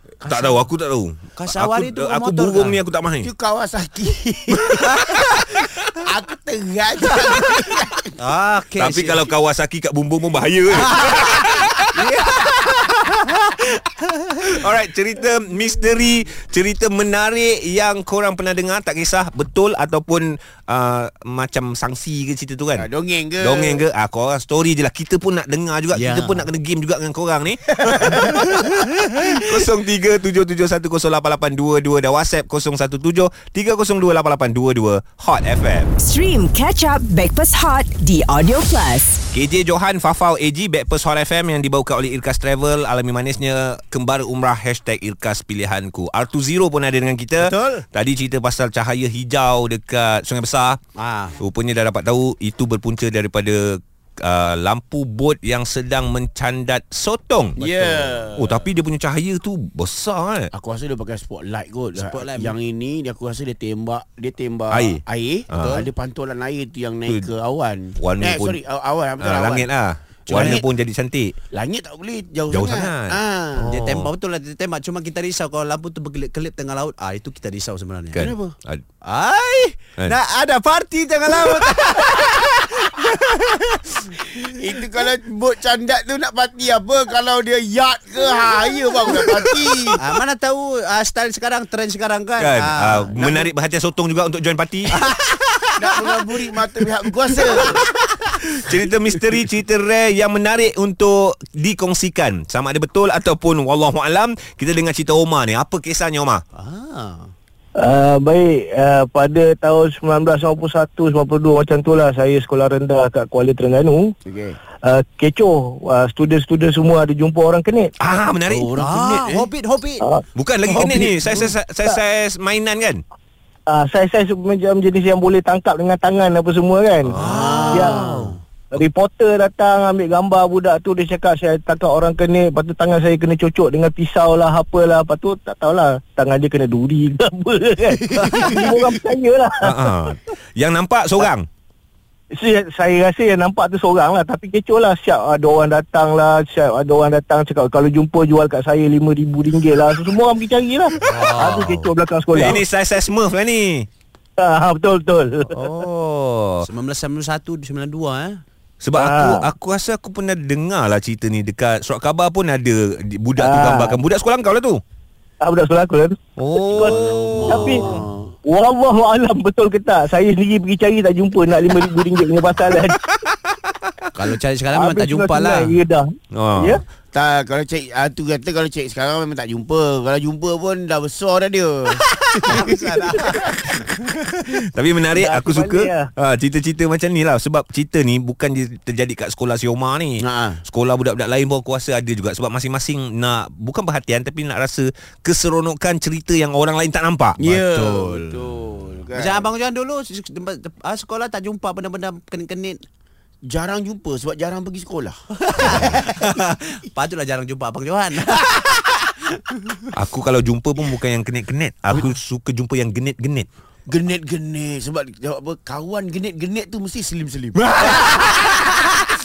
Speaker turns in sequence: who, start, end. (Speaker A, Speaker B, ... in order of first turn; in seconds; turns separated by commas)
Speaker A: 0.2-0.7, Speaker B: 0.2-3.3, Speaker A: 1.4-2.8, Speaker C: 3.2-5.0, Speaker B: 4.5-5.7, Speaker A: 4.9-5.4, Speaker C: 5.9-8.2, Speaker A: 8.2-9.3, Speaker B: 8.8-13.0, Speaker A: 10.7-12.3, Speaker A: 13.2-14.7, Speaker B: 14.4-22.9, Speaker C: 22.8-23.8, Speaker B: 23.4-35.9, Speaker A: 25.9-26.5, Speaker C: 27.9-28.4, Speaker D: 36.0-39.2, Speaker B: 39.3-50.8, Speaker A: 47.4-47.9, Speaker A: 51.0-51.4, Speaker B: 51.4-57.6, Speaker C: 57.6-58.6, Speaker A: 57.6-58.1, Speaker B: 58.4-60.5, Speaker C: 60.5-69.7, Speaker A: 62.0-62.5, Speaker B: 64.7-65.8, Speaker A: 65.6-65.9, Speaker B: 68.0-68.6, Speaker B: 69.2-71.3, Speaker C: 70.3-70.6, Speaker C: 71.5-73.7, Speaker B: 72.5-74.1, Speaker A: 73.7-78.3, Speaker B: 78.1-78.8, Speaker C: 78.1-78.5, Speaker A: 79.0-84.3, Speaker C: 84.4-90.0, Speaker B: 89.1-89.4, Speaker A: 90.0-93.5, Speaker B: 92.4-95.1, Speaker A: 95.0-95.4, Speaker C: 95.8-97.8, Speaker B: 98.4-106.4, Speaker A: 106.5-107.3, Speaker E: 107.8-114.1, Speaker C: 114.2-114.6, Speaker E: 114.8-117.9, Speaker B: 118.0-118.7, Speaker C: 118.5-119.5, Speaker A: 118.8-120.1, Speaker E: 120.0-121.3, Speaker B: 120.3-123.0, Speaker E: 123.7-127.2, Speaker B: 127.1-127.3, Speaker A: 127.2-128.2, Speaker C: 127.2-128.3, Speaker E: 127.7-128.2, Speaker B: 127.9-128.2, Speaker E: 128.7-139.9, Speaker C: 138.2-138.7, Speaker B: 139.6-141.5, Speaker E: 142.4-152.6, Speaker A: 151.0-151.9, Speaker B: 152.3-153.9, Speaker E: 154.4-155.7, Speaker B: 155.5-156.7, Speaker A: 156.6-158.4, Speaker B: 158.8-164.8, Speaker E: 158.9-159.5, Speaker E: 163.4-164.0, Speaker E: 165.4-166.2, Speaker B: 166.4-168.0, Speaker E: 166.7-167.9, Speaker C: 167.4-168.3, Speaker E: 168.4-173.0, Speaker A: 174.1-175.8, Speaker E: 174.7-176.8, Speaker B: 176.3-176.8, Speaker C: 177.1-182.6, Speaker A: 182.4-183.5, Speaker C: 183.4-183.8, Speaker B: 184.3-198.4, Speaker E: 185.1-186.1, Speaker C: 190.2-190.6, Speaker C: 197.4-199.5, Speaker A: 199.1-202.8, Speaker C: 203.5-206.2, Speaker A: 205.4-209.9, Speaker B: 209.9-213.5, Speaker C: 213.9-217.6, Speaker B: 217.6-219.0